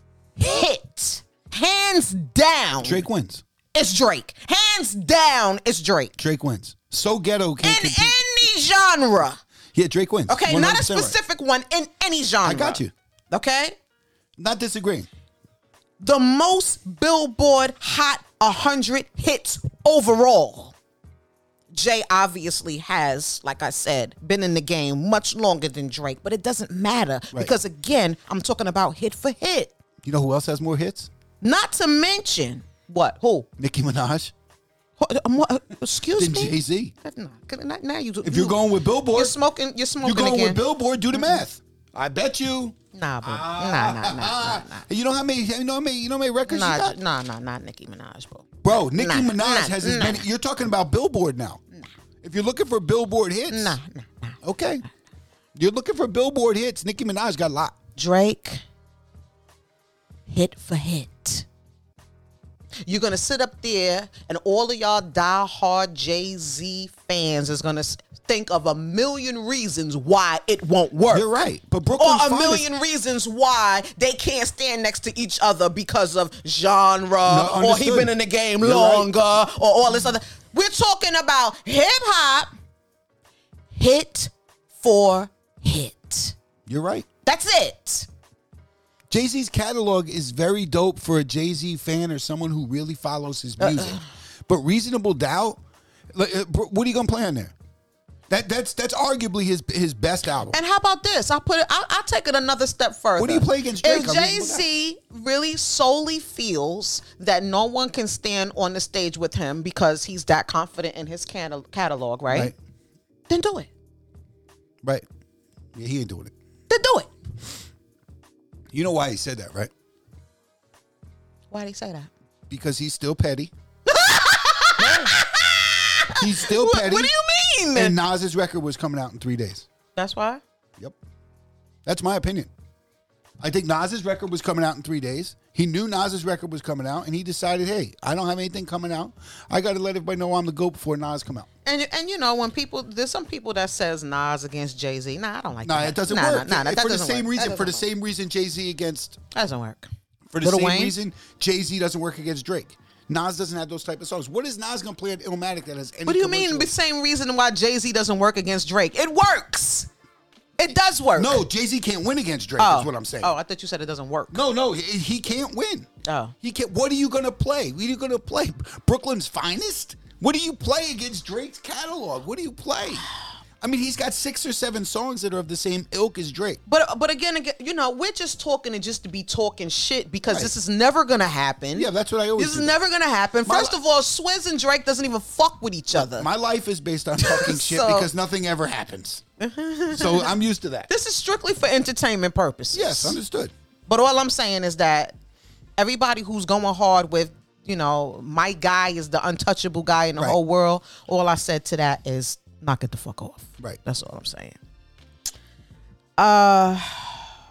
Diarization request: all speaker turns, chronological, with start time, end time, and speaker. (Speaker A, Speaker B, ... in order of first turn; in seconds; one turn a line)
Speaker A: 0.4-3.0
Speaker B: 2.8-3.4
Speaker A: 3.7-6.2
Speaker B: 6.2-8.1
Speaker A: 7.6-9.4
Speaker B: 9.7-11.2
Speaker A: 10.3-13.8
Speaker B: 12.4-12.9
Speaker B: 14.4-15.1
Speaker A: 16.0-20.7
Speaker A: 21.7-29.7
Speaker B: 30.0-31.1
Speaker A: 31.4-33.5
Speaker B: 33.6-34.3
Speaker A: 35.0-38.6
Speaker B: 36.1-36.9
Speaker B: 38.2-39.4
Speaker A: 39.1-40.6
Speaker B: 40.0-47.0
Speaker A: 41.1-41.4
Speaker A: 42.9-44.8
Speaker A: 46.5-50.2
Speaker B: 48.6-51.6
Speaker B: 52.2-53.8
Speaker A: 53.5-54.4
Speaker B: 54.4-54.8
Speaker B: 55.5-57.8
Speaker A: 58.0-58.6
Speaker A: 60.3-61.5
Speaker A: 62.8-71.3
Speaker B: 71.1-72.7
Speaker A: 71.9-82.5
Speaker B: 77.2-79.1
Speaker A: 83.7-86.3
Speaker B: 86.7-87.1
Speaker A: 87.2-88.1
Speaker B: 89.1-95.6
Speaker A: 93.6-94.0
Speaker B: 96.1-97.5
Speaker B: 98.3-100.6
Speaker A: 100.5-112.5
Speaker B: 103.2-104.6
Speaker A: 113.3-113.7
Speaker B: 115.7-116.3
Speaker A: 116.7-117.1
Speaker B: 118.7-119.7
Speaker A: 121.5-122.1
Speaker B: 122.5-123.5
Speaker A: 123.8-127.9
Speaker B: 124.8-125.2
Speaker B: 126.2-127.1
Speaker B: 127.7-129.7
Speaker A: 129.9-130.4
Speaker B: 131.8-132.5
Speaker B: 133.4-141.5
Speaker A: 141.6-147.8
Speaker B: 145.6-149.2
Speaker A: 149.3-149.9
Speaker B: 150.3-156.7
Speaker A: 150.4-150.9
Speaker A: 156.1-159.9
Speaker A: 160.6-161.4
Speaker B: 161.1-163.3
Speaker A: 162.6-164.4
Speaker B: 164.3-165.9
Speaker A: 166.1-166.3
Speaker B: 166.4-173.1
Speaker B: 173.6-176.6
Speaker A: 176.7-186.3
Speaker B: 181.7-182.8
Speaker B: 183.4-183.8
Speaker B: 185.9-189.2
Speaker A: 187.2-188.1
Speaker A: 189.4-190.3
Speaker B: 189.9-190.9
Speaker A: 190.9-193.2
Speaker B: 192.7-193.5
Speaker A: 193.9-195.2
Speaker A: 195.8-204.6
Speaker A: 206.2-207.3